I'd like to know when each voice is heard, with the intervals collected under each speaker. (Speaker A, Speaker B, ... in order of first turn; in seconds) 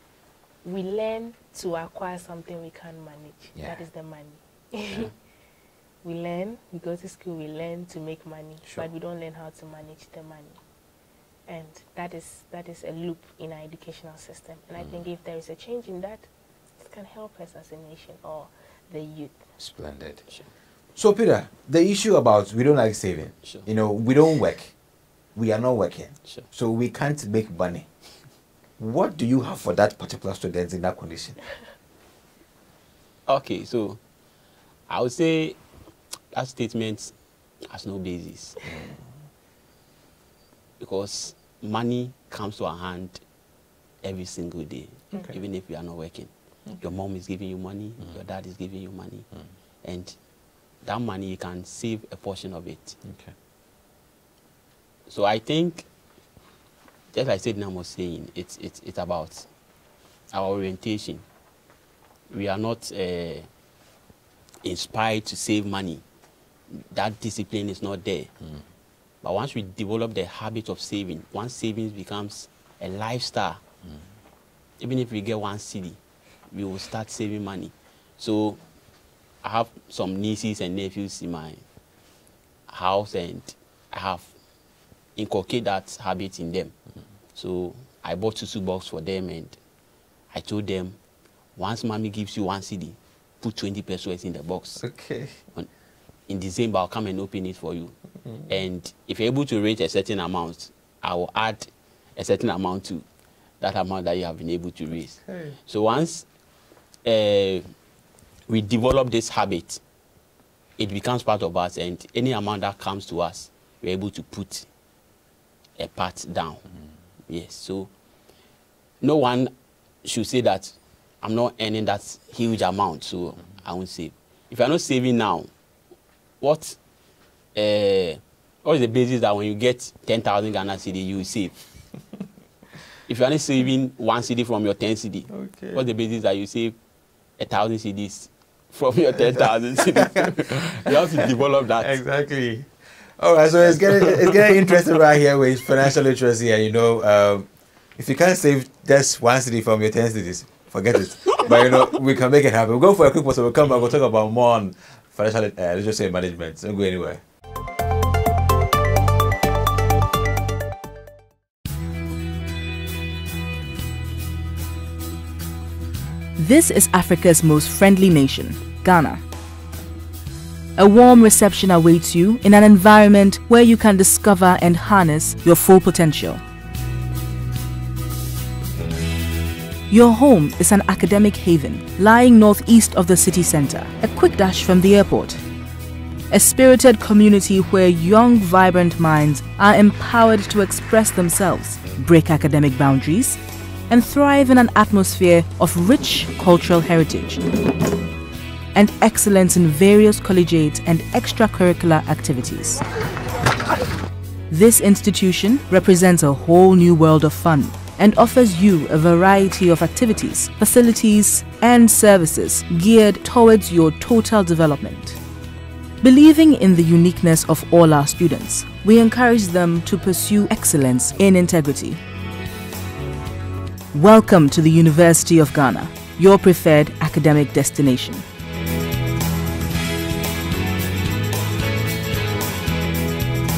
Speaker A: 0.6-5.1, 6.0-10.6, 11.5-16.3, 16.8-19.5
Speaker B: 3.6-3.8, 19.6-20.2, 20.9-24.7, 25.4-27.9, 28.8-31.4, 38.6-39.0, 53.0-53.3, 94.8-95.4, 105.3-105.5, 135.3-135.8, 140.2-141.2, 141.8-157.2
Speaker C: 33.3-34.0, 34.9-35.6, 36.3-37.1, 37.7-38.7, 40.8-43.2, 44.0-49.3, 49.8-50.2, 50.8-53.0, 55.1-55.9, 57.1-59.5, 60.3-61.2, 62.3-63.5, 64.6-66.0, 66.7-68.3, 69.2-73.6, 74.8-76.0, 76.5-78.6, 79.4-81.6, 82.7-84.3, 85.2-86.7, 87.3-89.6, 90.3-91.0, 91.6-94.8, 96.3-98.0, 98.5-103.0, 103.6-106.3, 107.0-107.7, 108.5-109.8, 110.8-114.7, 115.8-116.7, 117.3-117.9, 119.0-119.5, 120.0-125.5, 126.4-126.8, 127.5-131.6, 133.1-136.8, 137.4-142.0, 143.8-144.5
Speaker D: 166.4-169.2, 170.8-176.4, 179.9-185.4, 186.3-197.5, 198.7-202.8, 204.5-215.2, 216.0-222.0, 223.9-228.2